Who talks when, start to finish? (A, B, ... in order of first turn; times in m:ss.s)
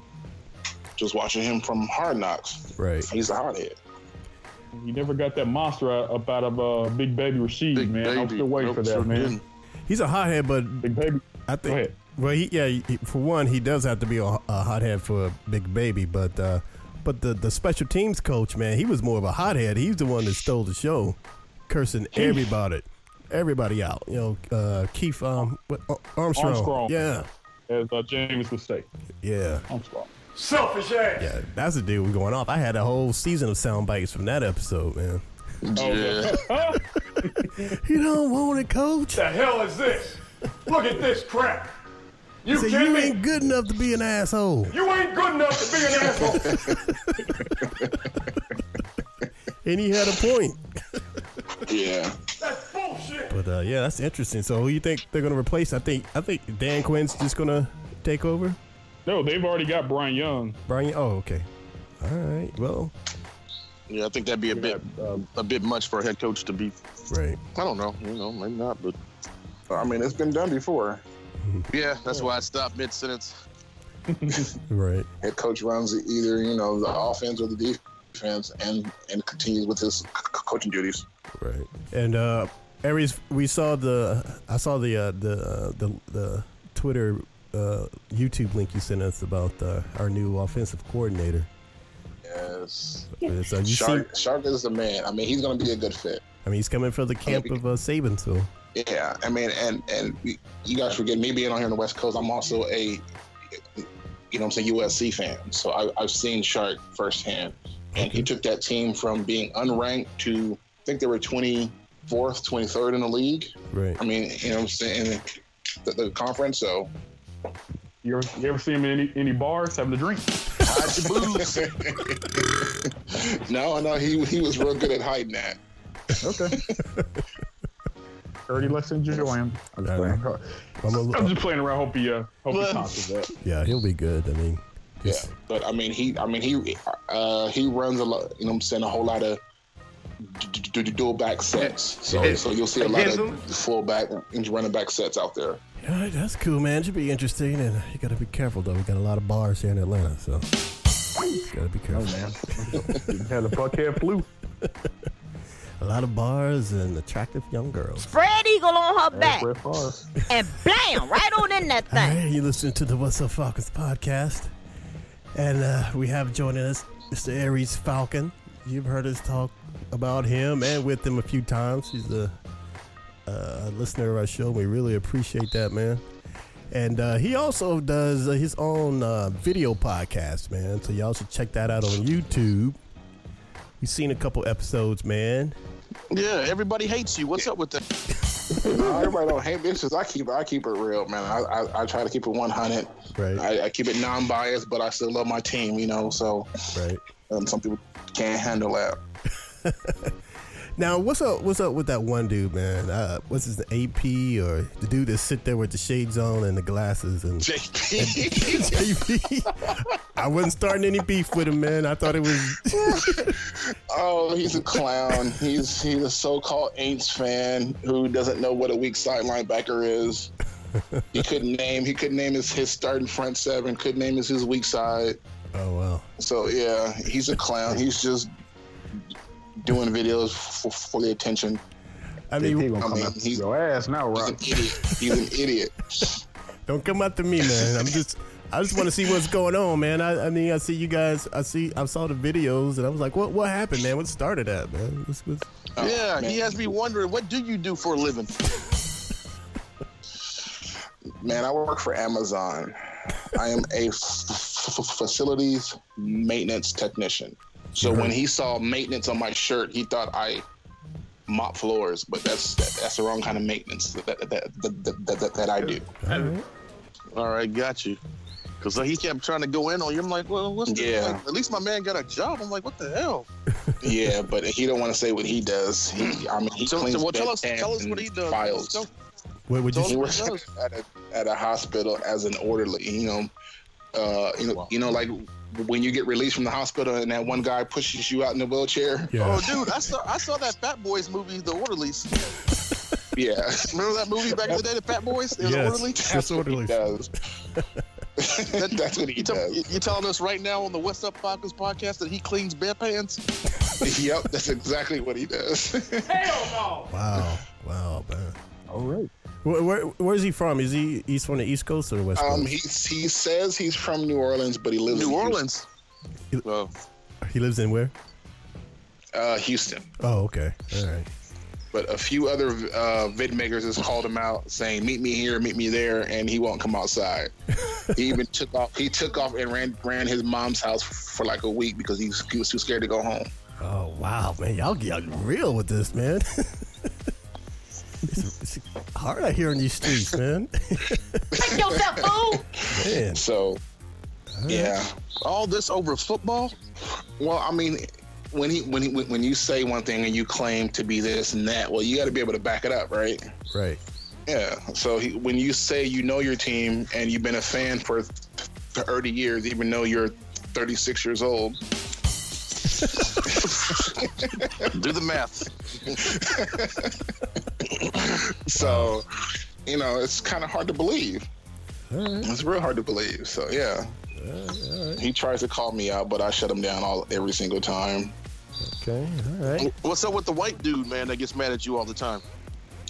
0:01.0-0:03.8 A
0:02.8-0:03.1 B
0:04.7-0:09.4 C
0:07.7-0:09.4 D
0:09.9-0:10.9 B
0:10.8-0:11.9 C
0:11.5-0:27.3 B
0:26.4-0:27.0 C
0:27.7-0:28.9 C
0:29.2-0:29.6 B
0:29.7-0:30.1 C
0:30.4-0:31.3 E
0:31.2-0:35.2 B
0:35.6-0:36.4 D
0:35.8-0:37.8 C
0:37.2-0:39.5 B
0:39.1-0:41.7 E
0:42.4-0:43.2 E
0:42.5-0:44.8 B
0:44.7-0:46.6 E
0:46.1-0:47.4 B
0:47.6-0:47.9 A
0:49.6-0:51.0 B
0:51.6-0:52.2 A
0:52.4-0:53.3 E
0:53.3-0:58.6 B
0:59.0-1:00.6 C
1:00.7-1:01.5 B
1:02.0-1:02.9 B
1:03.9-1:04.8 D
1:04.5-1:05.3 C
1:05.3-1:06.7 D
1:07.1-1:07.4 B
1:07.5-1:09.0 D
1:09.7-1:11.0 A
1:11.4-1:11.7 B
1:11.7-1:13.4 D
1:14.1-1:14.5 C
1:14.7-1:15.1 B
1:15.2-1:21.0 A
1:21.3-1:31.5 B
1:32.2-1:36.2 A
1:33.2-1:34.1 B
1:36.4-1:38.5 B
1:37.2-1:37.6 A
1:38.7-1:43.0 A
1:43.8-1:56.9 A
1:47.9-1:48.3 B
1:53.7-1:54.0 B
1:58.0-2:00.6 C
2:00.6-2:01.6 D
2:01.2-2:05.6 A
2:06.2-2:06.6 C
2:06.9-2:07.2 B
2:08.5-2:10.4 C
2:09.8-2:10.2 B
2:10.8-2:11.4 B
2:11.1-2:13.3 C
2:12.5-2:12.9 D
2:13.4-2:15.3 B
2:15.0-2:19.4 A
2:20.2-2:25.6 A
2:22.1-2:22.4 B
2:22.8-2:23.3 E
2:25.8-2:30.5 B
2:31.3-2:33.1 B
2:31.9-2:34.3 C
2:34.6-2:34.9 B
2:35.8-2:38.1 B
2:38.1-2:39.5 F
2:39.1-2:40.2 C
2:40.3-2:42.2 F
2:41.9-2:44.5 B
2:45.3-2:52.3 B
2:53.2-2:56.0 B
2:56.7-3:02.8 B
3:03.8-3:05.6 B
3:06.1-3:07.8 D
3:08.6-3:16.5 A
3:13.1-3:13.4 B
3:16.7-3:17.0 B
3:17.3-3:19.0 A
3:19.6-3:20.1 B
3:20.8-3:33.4 B
3:27.4-3:28.8 A
3:32.8-3:40.3 A
3:40.7-3:41.2 B
3:41.1-3:45.2 A
3:45.5-3:46.1 B
3:46.2-3:48.3 A
3:49.6-3:51.6 A
3:52.3-3:52.8 B
3:52.4-3:54.4 C
3:52.7-3:53.4 A
3:54.1-3:56.2 A
3:56.6-4:05.5 B
4:05.8-4:06.6 A
4:05.8-4:08.3 D
4:10.3-4:10.7 A
4:11.2-4:20.4 A
4:17.8-4:18.1 B
4:21.3-4:25.9 A
4:26.0-4:26.4 B
4:27.1-4:28.0 D
4:28.6-4:33.3 D
4:30.7-4:31.2 A
4:33.6-4:34.0 B
4:33.8-4:38.8 A
4:36.6-4:38.9 D
4:39.5-4:40.1 B
4:39.7-4:40.4 D
4:39.8-4:43.3 A
4:43.9-4:49.2 A
4:49.1-4:49.7 B
4:49.2-4:52.1 D
4:53.1-4:53.8 A
4:53.7-4:56.0 D
4:55.4-4:57.0 B
4:56.0-4:57.1 A
4:57.5-4:57.8 B
4:58.2-4:59.7 A
4:58.4-5:03.2 D
5:03.8-5:06.6 A
5:06.2-5:06.9 E
5:06.8-5:08.4 B
5:08.7-5:09.1 C
5:09.4-5:12.5 B
5:12.2-5:15.4 A
5:14.9-5:15.6 D
5:16.4-5:16.7 D
5:17.2-5:17.9 B
5:19.1-5:19.9 A
5:20.0-5:21.1 B
5:21.7-5:27.3 A
5:27.9-5:33.3 A
5:33.6-5:37.1 B
5:38.0-5:41.3 B
5:41.4-5:42.5 F
5:41.4-5:43.6 A
5:42.7-5:43.2 B
5:44.3-5:44.8 B
5:44.5-5:44.9 A
5:45.2-5:46.5 D
5:47.2-5:53.2 A
5:53.5-5:53.8 B
5:54.3-6:01.6 A
6:03.0-6:04.7 A
6:04.7-6:05.5 D
6:05.9-6:07.0 A
6:07.6-6:09.1 A
6:08.5-6:09.0 B
6:09.6-6:11.3 A
6:11.9-6:12.3 B
6:12.2-6:13.9 A
6:14.1-6:15.0 B
6:15.0-6:18.1 A
6:18.6-6:19.7 B
6:19.6-6:22.2 D